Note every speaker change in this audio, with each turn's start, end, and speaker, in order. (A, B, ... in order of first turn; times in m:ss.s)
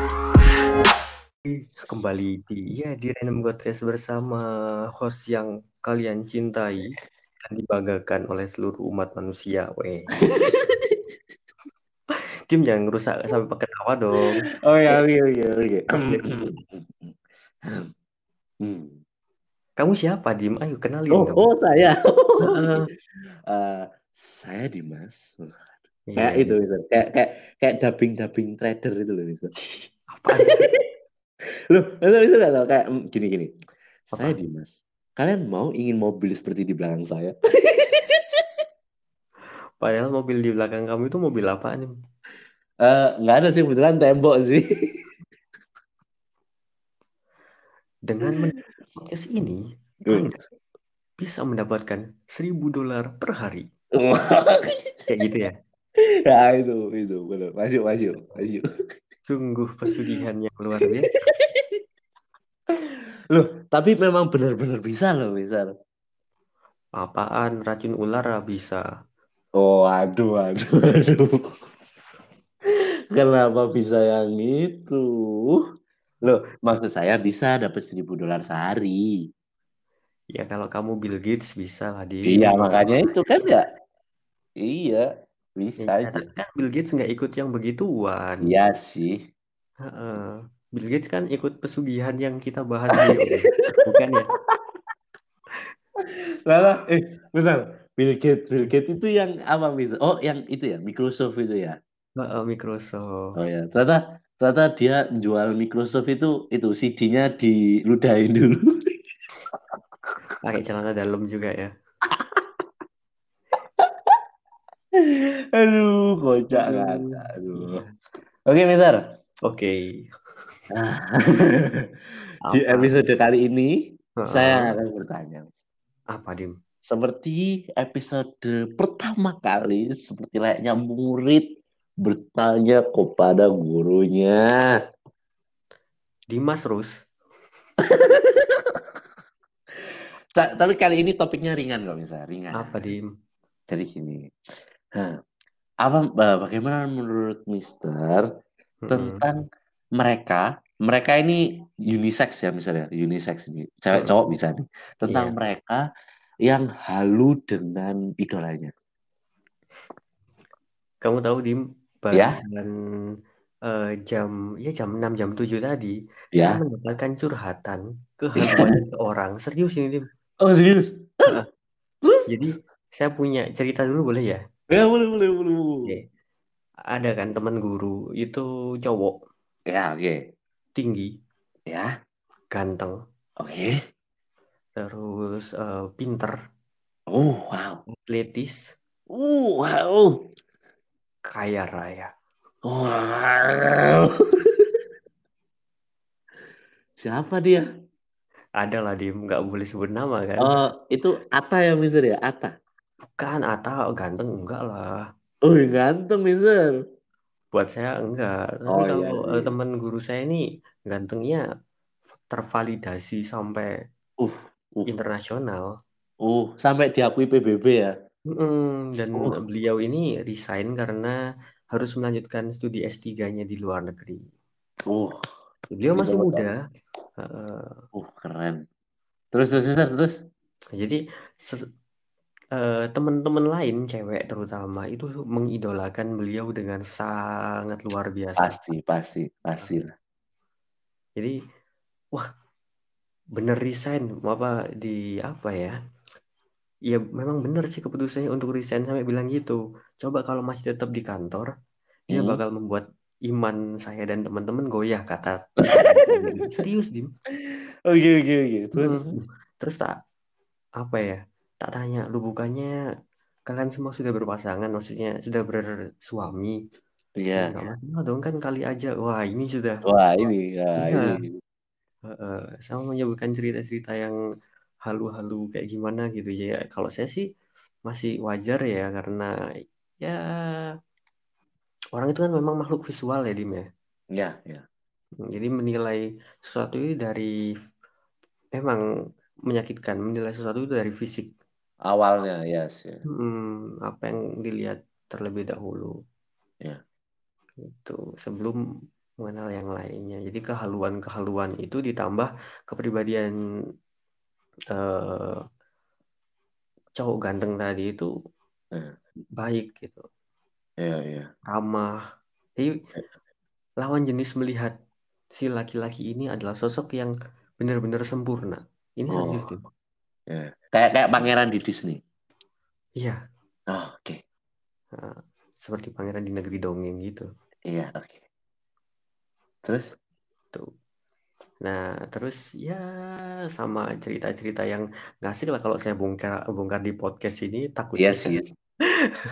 0:01.4-0:06.9 A
0:07.4-0:10.1 A
0:10.4-0:11.0 B
0:12.5-0:15.0 A
0:14.6-0:17.1 B
0:16.1-0:16.4 A
0:18.6-0:19.0 B
0:19.8-0:21.5 A
0:21.1-0:22.8 B
0:22.5-0:22.9 A
0:23.5-0:25.6 B
0:26.1-0:26.6 A
0:26.2-0:29.5 B
0:29.6-0:30.7 A
0:30.4-0:30.8 B
0:31.7-0:33.5 B
0:34.1-0:38.4 B
0:34.1-0:34.4 A
0:39.8-0:41.9 A
0:42.8-0:45.0 B
0:48.1-0:50.3 A
0:51.2-0:53.6 A
0:54.0-0:54.9 B
0:55.1-0:55.5 A
0:56.3-0:58.6 B
0:59.3-1:01.1 A
1:01.4-1:01.8 B
1:03.3-1:05.7 B
1:07.0-1:08.8 A
1:09.6-1:11.3 B
1:13.1-1:15.6 B
1:16.2-1:19.2 B
1:20.3-1:23.5 A
1:22.3-1:23.6 B
1:24.6-1:25.0 B
1:25.6-1:26.2 B
1:25.8-1:28.5 A
1:28.4-1:29.2 B
1:29.9-1:34.3 A
1:33.0-1:33.4 B
1:36.5-1:41.8 B
1:42.2-1:43.4 A
1:43.4-1:48.7 B
1:50.4-1:51.7 A
1:52.1-1:52.4 B
1:53.8-1:54.2 B
1:55.0-1:57.8 B
1:56.5-1:57.9 A
1:58.5-1:59.0 B
1:59.5-1:59.7 A
2:00.7-2:01.9 B
2:02.5-2:02.9 A
2:02.5-2:03.8 B
2:04.2-2:04.7 A
2:04.3-2:05.4 B
2:06.1-2:06.5 A
2:06.9-2:11.4 B
2:12.0-2:14.7 B
2:16.3-2:17.0 A
2:17.8-2:18.8 B
2:20.4-2:22.9 B
2:22.6-2:23.1 A
2:23.7-2:24.2 B
2:25.8-2:28.3 B
2:28.8-2:29.2 A
2:28.9-2:29.4 B
2:30.0-2:35.8 B
2:33.9-2:34.2 A
2:35.0-2:35.3 A
2:36.5-2:38.7 B
2:41.0-2:42.7 A
2:43.7-2:50.0 A
2:46.3-2:46.6 B
2:48.4-2:48.8 B
2:50.4-2:51.4 B
2:52.3-2:54.4 A
2:54.7-2:55.9 B
2:56.9-2:59.1 A
2:59.7-3:00.2 B
3:00.8-3:01.1 A
3:02.5-3:02.9 A
3:03.4-3:03.8 B
3:04.8-3:06.3 A
3:07.1-3:07.8 B
3:08.1-3:08.6 A
3:09.1-3:10.2 B
3:11.3-3:12.1 A
3:12.6-3:14.7 B
3:17.0-3:17.6 B
3:18.6-3:20.5 A
3:20.4-3:22.5 B
3:23.2-3:25.0 A
3:25.4-3:26.7 B
3:27.5-3:31.4 A
3:28.7-3:29.5 B
3:32.3-3:33.7 A
3:34.2-3:34.9 B
3:34.8-3:35.7 A
3:36.2-3:37.9 B
3:38.3-3:41.1 A
3:41.7-3:44.2 A
3:44.9-3:45.2 B
3:45.7-3:46.5 A
3:45.9-3:46.5 B
3:47.2-3:47.8 A
3:47.9-3:48.6 B
3:49.3-3:50.1 B
3:50.8-3:51.6 A
3:52.6-3:58.5 A
3:58.4-3:59.9 B
4:03.4-4:05.7 A
4:06.9-4:11.5 A
4:12.1-4:12.4 B
4:12.1-4:17.1 A
4:17.9-4:19.1 B
4:18.8-4:19.9 A
4:20.8-4:22.7 A
4:23.5-4:26.6 A
4:27.2-4:27.6 B
4:27.4-4:29.8 A
4:29.8-4:31.3 B
4:30.8-4:31.2 A
4:32.1-4:34.1 A
4:34.9-4:37.2 A
4:37.9-4:39.3 A
4:40.0-4:40.7 A
4:42.0-4:43.6 A
4:44.2-4:44.6 B
4:45.3-4:47.3 A
4:49.5-4:51.3 A
4:51.9-4:53.0 B
4:53.1-4:55.9 A
4:57.6-4:58.6 A
4:59.2-5:03.3 A
5:04.7-5:05.4 A
5:07.0-5:08.1 A
5:09.4-5:10.0 A
5:10.8-5:11.3 B
5:11.5-5:11.9 A
5:13.8-5:14.7 A
5:15.4-5:19.6 A
5:19.1-5:19.5 B
5:20.3-5:22.0 B
5:23.7-5:24.2 B
5:24.9-5:27.3 A
5:27.7-5:28.2 B
5:29.6-5:29.9 B
5:31.6-5:32.8 A
5:33.6-5:38.3 A
5:38.0-5:38.4 B